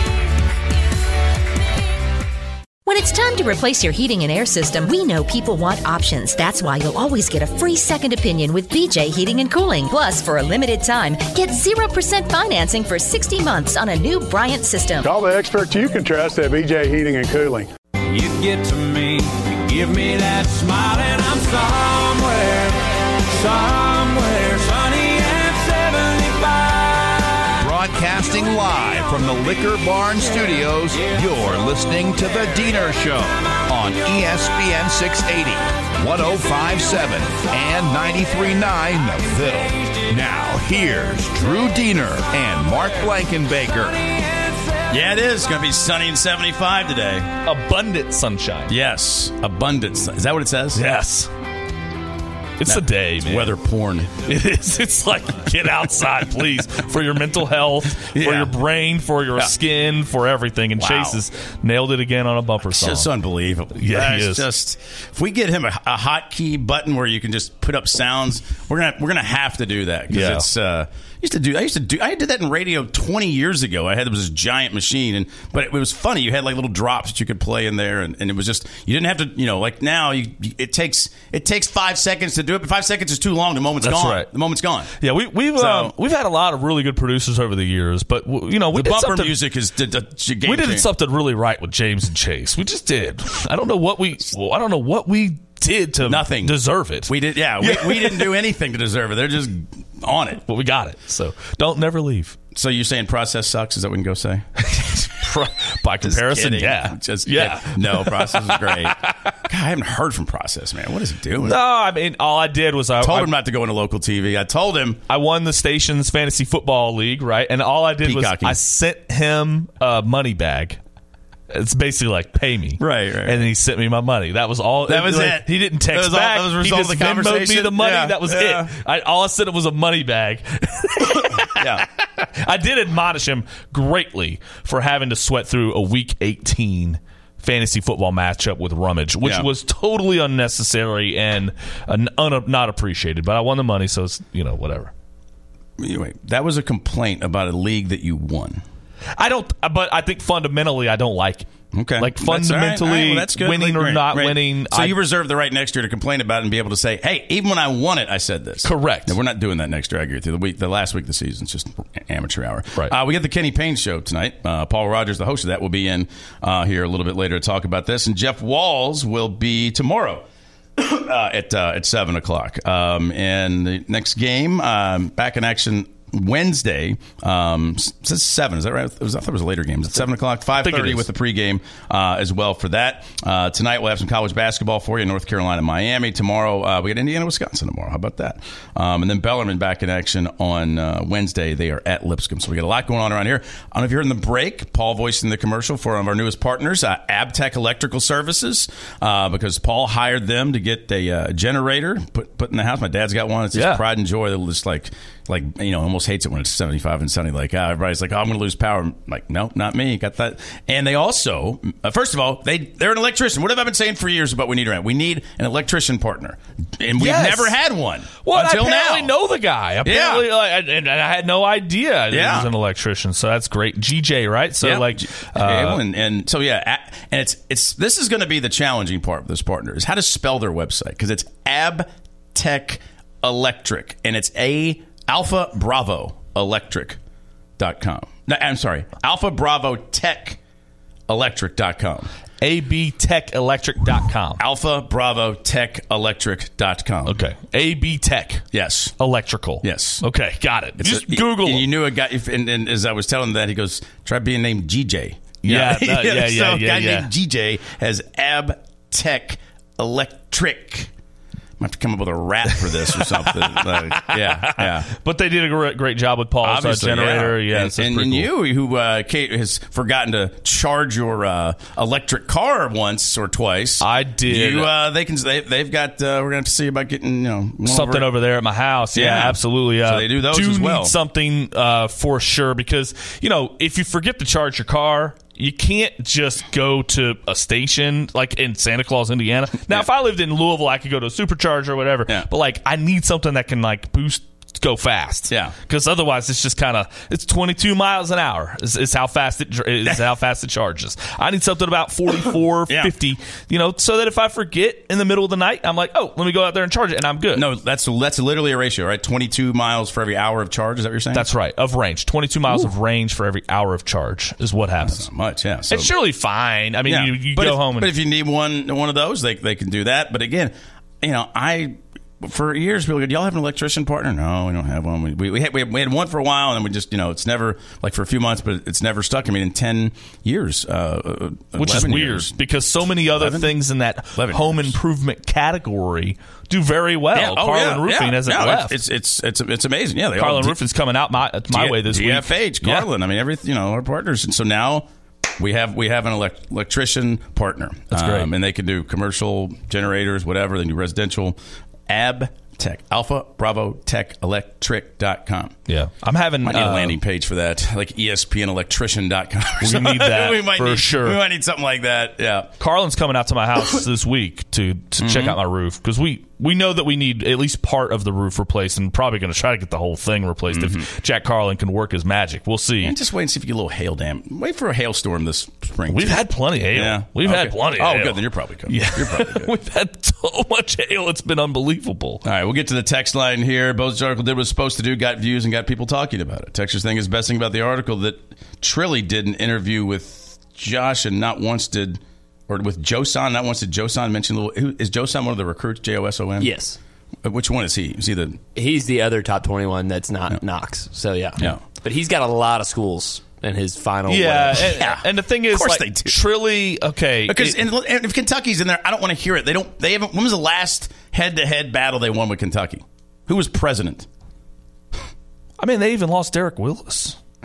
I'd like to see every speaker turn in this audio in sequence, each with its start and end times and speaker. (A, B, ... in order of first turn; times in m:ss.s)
0:02.8-0:15.0 A
0:15.0-0:17.7 B
0:18.1-0:27.1 C
0:27.6-0:44.0 D
0:44.9-0:47.3 E
0:47.4-0:48.7 F
0:48.7-0:50.8 E
0:50.7-0:51.3 F
0:52.6-0:53.5 F
0:52.6-0:54.2 E
0:54.2-1:03.1 F
0:58.0-0:58.6 E
1:00.8-1:01.2 E
1:02.7-1:24.9 E
1:03.8-1:04.4 F
1:10.1-1:10.4 F
1:23.8-1:24.3 F
1:25.0-1:29.3 F
1:25.5-1:25.9 E
1:28.7-1:30.9 E
1:30.4-1:38.3 F
1:36.0-1:40.4 E
1:40.5-1:42.4 F
1:42.5-1:44.4 E
1:44.6-1:49.3 F
1:46.0-1:51.6 E
1:51.4-1:53.3 F
1:53.0-1:55.0 E
1:55.1-2:00.8 F
1:58.0-1:58.6 E
2:01.5-2:24.9 F
2:02.8-2:03.5 E
2:04.8-2:08.7 E
2:11.5-2:11.8 E
2:19.2-2:19.5 E
2:25.8-2:28.6 E
2:29.2-2:31.5 F
2:31.7-2:50.2 E
2:32.0-2:35.0 F
2:38.6-2:39.2 F
2:50.8-3:39.1 E
3:00.6-3:01.0 F
3:23.5-3:23.8 F
3:37.0-3:37.5 F
3:38.2-3:45.8 F
3:39.8-3:40.3 E
3:42.1-3:42.5 E
3:44.6-3:57.0 E
3:57.6-4:00.4 E
4:01.1-4:02.1 E
4:02.4-4:04.4 F
4:04.4-4:07.2 E
4:07.0-4:08.4 F
4:08.5-4:09.0 E
4:09.0-4:11.7 F
4:09.6-4:10.0 E
4:10.8-4:20.9 E
4:15.4-4:17.1 F
4:21.6-4:24.9 E
4:23.7-4:28.3 F
4:26.4-4:38.1 E
4:33.8-4:34.7 F
4:37.6-5:07.5 F
4:38.9-4:41.0 E
4:55.3-4:55.5 E
5:02.7-5:02.9 E
5:07.3-5:11.3 E
5:11.1-5:15.1 F
5:14.8-5:15.9 E
5:15.7-5:17.9 F
5:16.8-5:32.3 E
5:31.6-5:38.8 F
5:33.0-5:33.5 E
5:34.2-5:34.7 E
5:37.1-5:40.6 E
5:40.2-5:42.9 F
5:41.5-5:44.8 E
5:45.4-5:51.4 E
5:47.9-5:48.3 F
5:51.9-5:55.6 E
5:55.7-5:57.0 F
5:56.4-6:02.5 E
5:59.6-6:01.2 F
6:02.6-6:13.0 F
6:05.0-6:05.4 E
6:10.5-6:10.9 E
6:12.8-6:19.5 E
6:15.9-6:22.2 F
6:22.2-6:36.5 E
6:36.4-6:36.8 G
6:37.2-6:38.4 E
6:38.6-6:44.7 G
6:44.1-6:47.6 F
6:44.6-6:46.2 E
6:47.2-6:54.1 E
6:55.6-6:57.2 F